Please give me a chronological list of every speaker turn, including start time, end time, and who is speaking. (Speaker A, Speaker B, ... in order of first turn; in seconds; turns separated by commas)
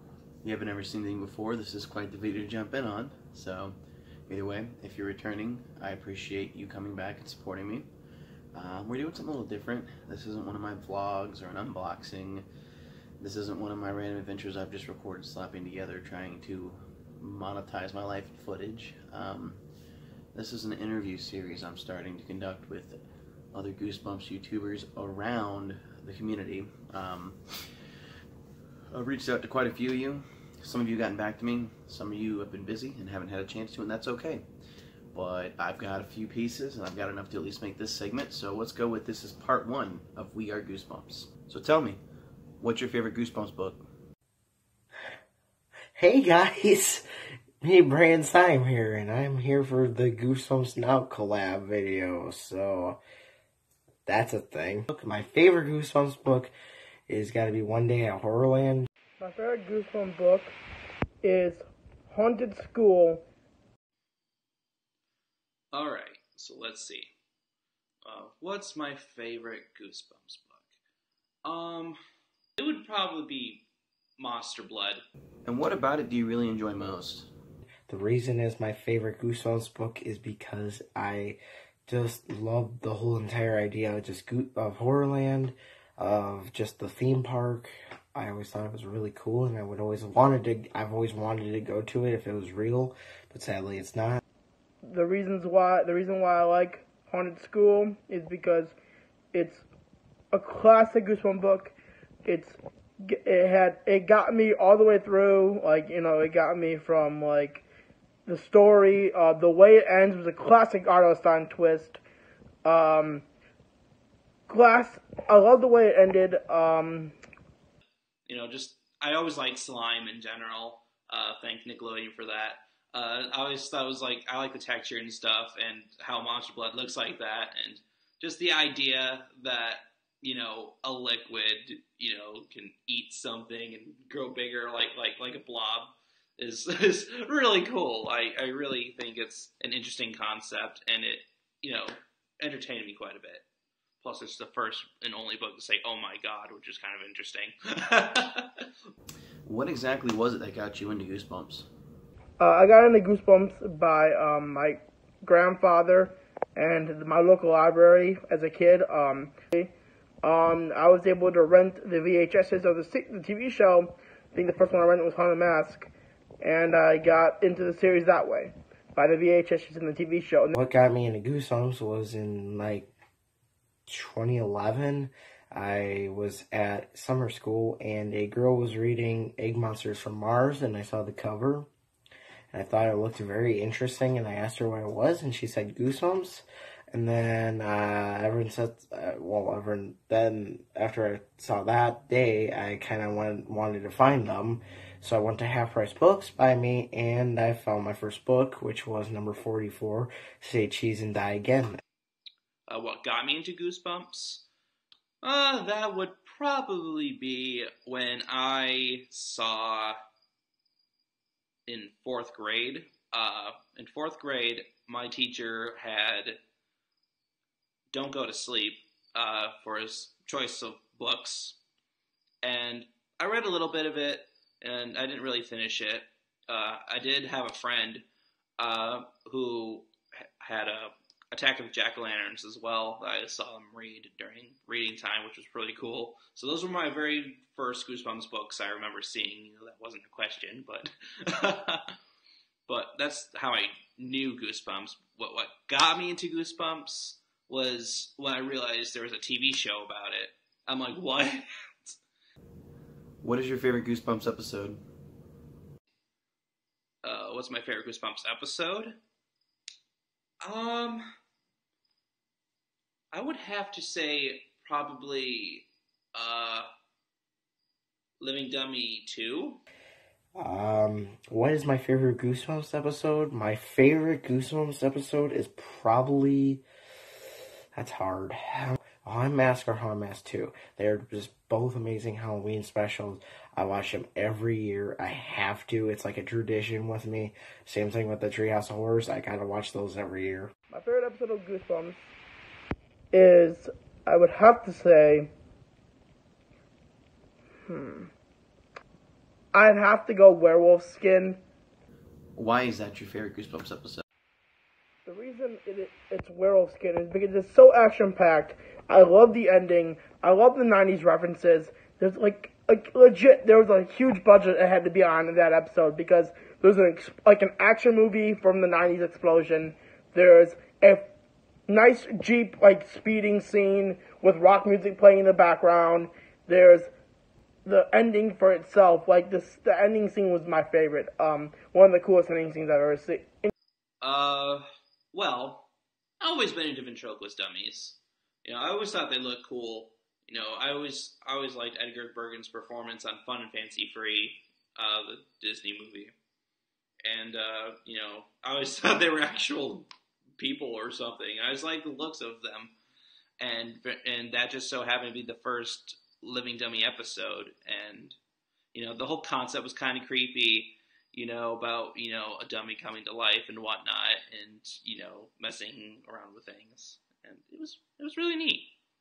Speaker A: 0.4-3.8, Speaker A: 4.3-7.9, Speaker A: 8.5-12.4, Speaker A: 13.2-19.6, Speaker A: 20.3-23.0, Speaker A: 23.5-27.4, Speaker A: 28.9-34.4, Speaker A: 35.1-42.0, Speaker A: 42.6-43.9, Speaker B: 46.0-47.0, Speaker B: 47.6-53.0, Speaker B: 54.0-56.5, Speaker B: 57.1-58.9, Speaker C: 59.2-60.5, Speaker C: 61.2-63.2, Speaker D: 65.7-67.1, Speaker D: 68.0-70.7, Speaker D: 71.4-72.0, Speaker D: 72.6-73.6, Speaker D: 74.2-75.0, Speaker A: 75.5-77.3, Speaker B: 77.9-94.2, Speaker C: 94.8-98.7, Speaker C: 99.3-99.6, Speaker C: 100.3-107.6, Speaker C: 108.2-112.0, Speaker C: 112.6-113.2, Speaker C: 114.5-117.2, Speaker D: 118.3-143.4, Speaker D: 144.0-148.7, Speaker A: 149.4-151.7, Speaker C: 152.4-159.7, Speaker C: 160.2-170.5, Speaker B: 170.5-172.9, Speaker B: 173.9-181.7, Speaker B: 182.5-201.8, Speaker D: 202.7-204.4, Speaker D: 205.2-209.9, Speaker D: 211.7-216.4, Speaker D: 217.9-221.6, Speaker D: 222.4-228.0, Speaker D: 228.6-229.9, Speaker D: 230.4-241.8, Speaker D: 242.7-251.9, Speaker A: 253.2-254.8, Speaker D: 257.0-258.9, Speaker D: 260.4-261.1, Speaker D: 263.1-266.7, Speaker D: 268.2-269.6, Speaker B: 270.4-276.6, Speaker B: 277.7-290.5, Speaker C: 290.7-292.1, Speaker C: 293.1-295.3, Speaker C: 297.6-298.1, Speaker C: 299.5-301.4, Speaker A: 302.4-304.0, Speaker C: 305.0-321.0, Speaker C: 321.7-326.9, Speaker C: 327.6-333.5, Speaker D: 334.0-335.7, Speaker D: 336.2-346.1, Speaker D: 347.0-352.7, Speaker D: 353.4-358.2, Speaker D: 358.7-368.7